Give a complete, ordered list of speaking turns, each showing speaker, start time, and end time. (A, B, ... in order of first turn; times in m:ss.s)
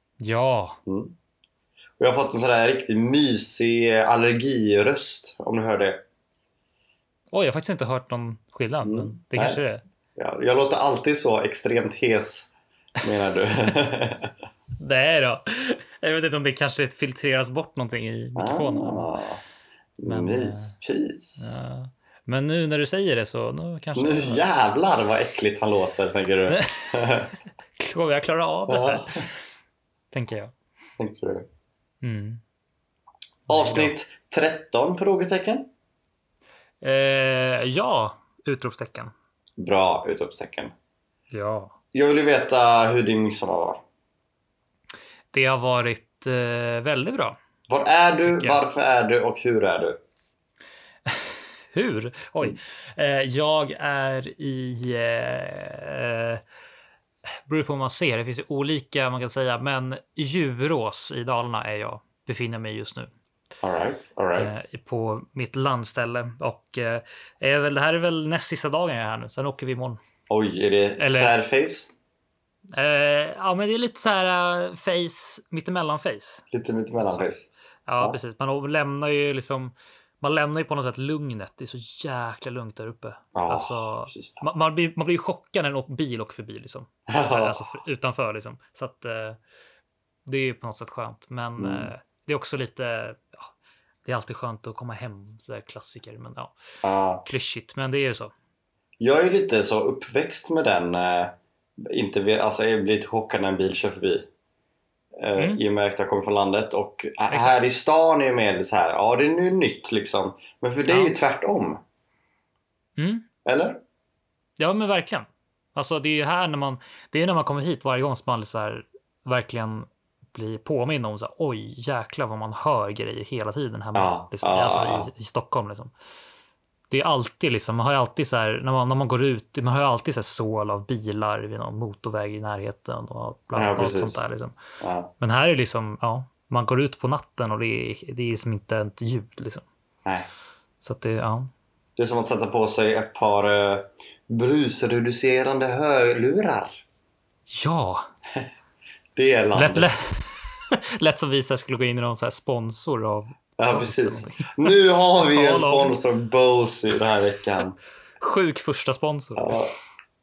0:00.2-0:00.8 A
0:00.9-0:01.1 B
0:02.0-0:06.0 B
0:07.3-0:09.8 A
0:08.8-0:09.6 B
0:10.2-0:14.3 B
0:14.8-0:19.1 A
0:18.4-0:19.4 B
0:20.0-0:21.5 B
0:20.0-0:20.8 A
0:21.4-0:24.5 A
0:23.9-0:27.3 B
0:26.5-0:27.3 A
0:27.8-0:29.3 A
0:28.7-0:29.2 B
0:30.1-0:30.5 A
0:31.0-0:31.5 B
0:32.0-0:32.4 A
0:33.5-0:33.9 A
0:33.5-0:35.7 B
0:36.8-0:39.1 A
0:39.6-0:40.7 B
0:41.3-0:41.7 A
0:41.9-0:43.8 B
0:45.3-0:47.4 A
0:47.7-0:50.0 B
0:48.2-0:48.6 A
0:51.7-0:56.4 A
0:57.5-1:03.1 A
1:03.6-1:04.6 B
1:04.4-1:10.0 A
1:10.3-1:11.9 B
1:11.0-1:11.3 A
1:12.7-1:16.5 A
1:16.5-1:17.5 B
1:17.0-1:17.3 A
1:17.9-1:29.4 A
1:23.4-1:24.4 B
1:27.1-1:27.7 B
1:30.3-1:33.5 A
1:31.6-1:31.9 B
1:34.0-1:36.5 A
1:36.8-1:37.2 B
1:37.2-1:38.3 A
1:39.0-1:44.3 B
1:45.2-1:51.8 B
1:45.4-1:45.6 A
1:47.3-1:47.6 A
1:50.9-1:51.1 A
1:53.0-1:53.3 A
1:53.4-1:53.8 B
1:54.6-2:05.9 A
2:04.0-2:05.1 B
2:06.9-2:14.6 A
2:13.6-2:14.2 B
2:14.8-2:15.1 B
2:15.2-2:19.6 A
2:20.8-2:21.5 A
2:22.0-2:26.8 B
2:27.5-2:28.0 A
2:29.2-2:29.9 B
2:29.6-2:36.0 A
2:33.6-2:37.8 B
2:38.2-2:39.6 A
2:39.4-2:39.7 B